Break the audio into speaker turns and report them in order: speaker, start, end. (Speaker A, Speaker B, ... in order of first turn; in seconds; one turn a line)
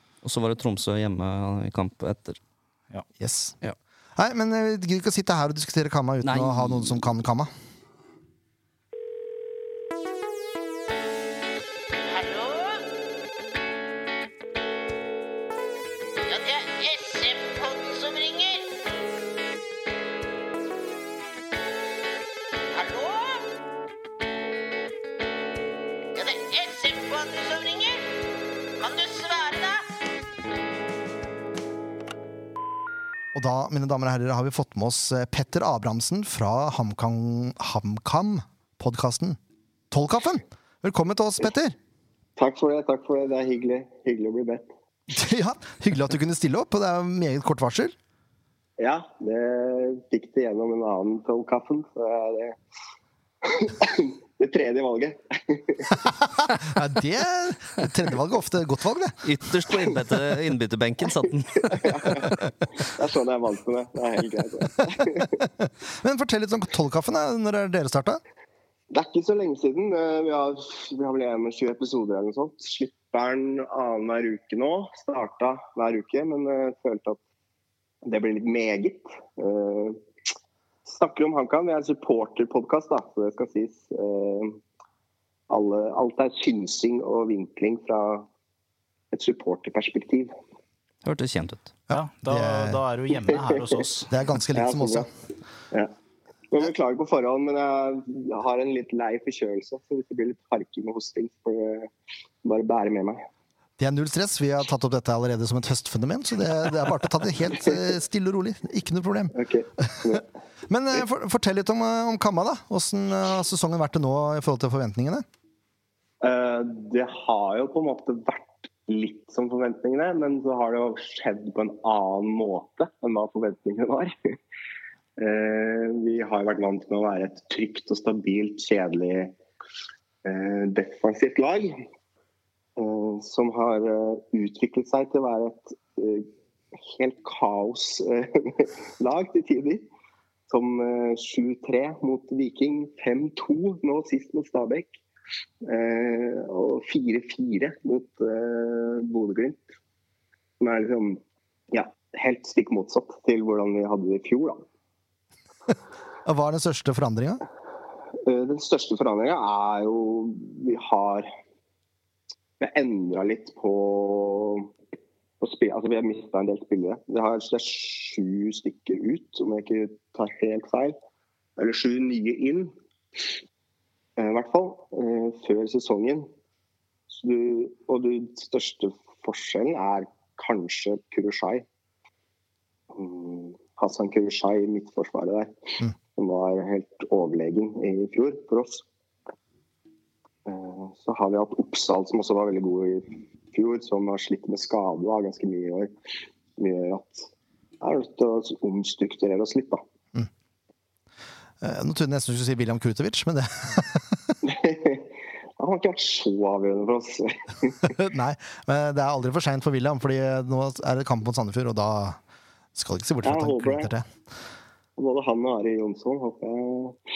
Speaker A: 0.2-2.4
Speaker B: 3.2-3.6
Speaker B: 4.2-7.5
Speaker A: 6.2-7.0
Speaker C: 12.0-12.8
Speaker C: 16.3-18.7
Speaker C: 22.7-23.5
Speaker C: 26.1-28.0
Speaker C: 28.8-29.9
Speaker B: 33.3-39.4
Speaker B: 39.9-41.8
Speaker D: 42.4-44.7
Speaker B: 45.1-47.9
Speaker D: 48.8-52.6
Speaker D: 53.4-56.0
Speaker B: 56.2-59.2
Speaker A: 59.2-62.4
Speaker D: 61.2-65.4
Speaker B: 65.6-68.2
Speaker D: 68.9-77.2
Speaker D: 78.0-80.0
Speaker D: 80.9-84.6
Speaker D: 85.5-88.3
Speaker D: 89.1-90.3
Speaker A: 91.0-91.7
Speaker B: 91.9-92.8
Speaker E: 91.9-94.1
Speaker B: 94.1-95.1
Speaker D: 94.5-95.1
Speaker D: 96.5-101.9
Speaker D: 102.4-103.2
Speaker B: 103.8-109.3
Speaker D: 109.3-110.2
Speaker B: 109.9-110.2
Speaker B: 110.7-115.2
Speaker D: 116.2-124.4
Speaker D: 125.2-129.4
Speaker D: 130.2-131.8
Speaker D: 132.8-139.9
Speaker D: 140.5-145.0
Speaker D: 145.6-149.7
Speaker D: 150.6-154.6
Speaker B: 156.2-157.4
Speaker D: 158.2-161.3
Speaker D: 162.6-164.7
Speaker D: 165.4-170.9
Speaker D: 171.6-173.3
Speaker D: 174.2-176.3
Speaker D: 177.1-181.7
Speaker D: 182.9-188.8
Speaker D: 190.5-195.9
Speaker D: 196.6-197.3
Speaker D: 197.8-199.8
Speaker B: 201.6-204.3
Speaker D: 204.4-207.8
Speaker B: 207.8-212.2
Speaker B: 212.8-214.1
Speaker D: 213.2-213.9
Speaker D: 215.0-217.0